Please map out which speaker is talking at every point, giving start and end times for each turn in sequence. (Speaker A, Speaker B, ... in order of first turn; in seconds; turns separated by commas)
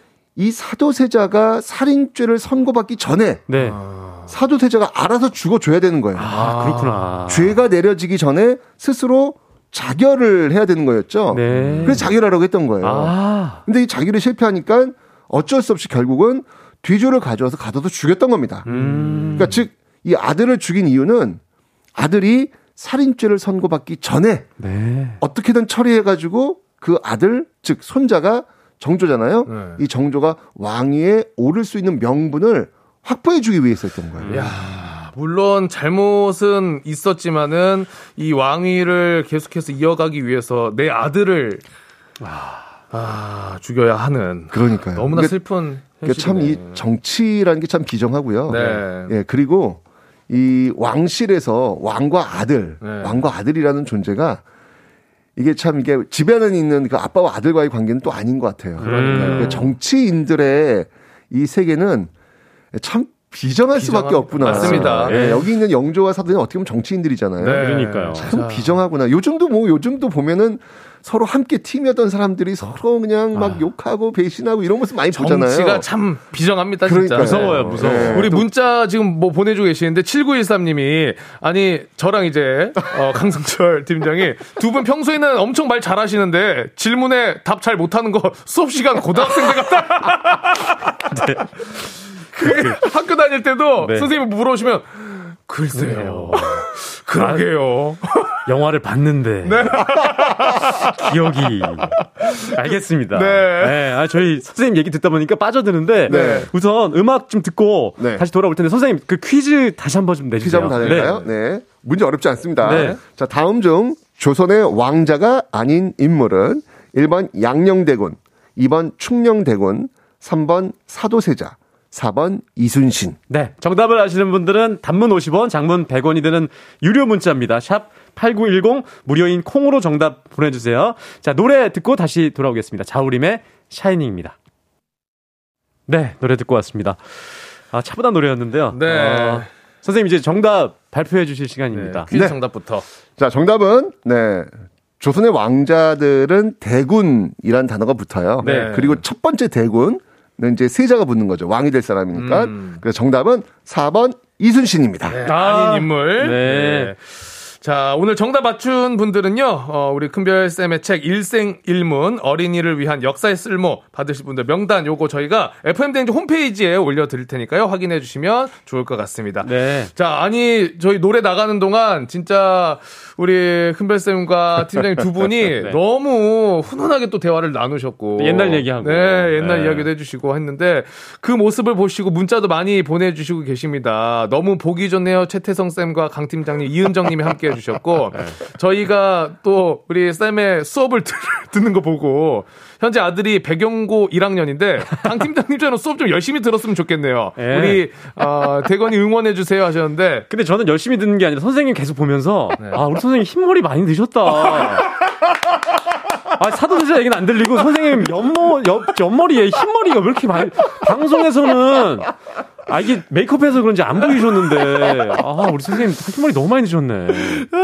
Speaker A: 0.3-3.5, Speaker B: 3.5-3.8, Speaker C: 3.6-4.3, Speaker A: 4.3-6.4, Speaker B: 6.2-7.6, Speaker C: 6.3-7.1, Speaker A: 7.3-18.7, Speaker B: 11.3-12.1, Speaker C: 11.5-12.1, Speaker B: 12.8-13.6, Speaker B: 18.6-19.6, Speaker C: 18.6-19.6, Speaker A: 19.3-21.4, Speaker A: 21.9-24.5, Speaker B: 24.6-25.2, Speaker A: 25.2-34.5, Speaker C: 29.4-29.8, Speaker C: 34.2-41.6, Speaker B: 34.2-34.8, Speaker B: 42.2-42.6, Speaker C: 42.9-46.8, Speaker A: 44.5-45.4, Speaker A: 45.9-54.4, Speaker C: 48.5-49.1, Speaker B: 48.5-48.8, Speaker C: 52.8-53.2, Speaker A: 55.4-62.1, Speaker B: 58.8-59.7, Speaker C: 58.8-59.6, Speaker A: 62.7-75.8, Speaker C: 63.7-65.4, Speaker B: 64.5-65.4, Speaker C: 67.4-68.8, Speaker B: 67.5-68.2, Speaker C: 75.1-90.9, Speaker A: 76.8-78.5, Speaker B: 77.2-78.2, Speaker B: 91.0-91.5, Speaker C: 92.3-98.4, Speaker B: 92.4-92.8, Speaker B: 93.8-94.1, Speaker B: 95.7-96.7, Speaker B: 98.5-99.8, Speaker C: 99.4-101.0, Speaker B: 101.0-111.2, Speaker C: 101.8-103.9, Speaker C: 106.0-106.5, Speaker A: 106.1-106.5, Speaker A: 108.0-108.2, Speaker A: 110.4-123.2, Speaker C: 110.8-111.3, Speaker B: 112.6-113.0, Speaker C: 112.6-113.0, Speaker B: 123.3-134.3, Speaker B: 135.9-142.1, Speaker C: 138.7-139.5, Speaker C: 141.7-142.8, Speaker A: 142.1-142.4, Speaker A: 143.2-155.2, Speaker C: 148.4-149.0, Speaker B: 148.4-148.8, Speaker C: 152.1-152.8, Speaker C: 155.1-200.3, Speaker B: 155.2-156.9, Speaker B: 169.4-169.9, Speaker B: 178.2-179.9, Speaker B: 197.4-197.8, Speaker B: 200.3-204.9, Speaker C: 204.4-204.9, Speaker B: 206.4-212.1, Speaker B: 212.7-217.5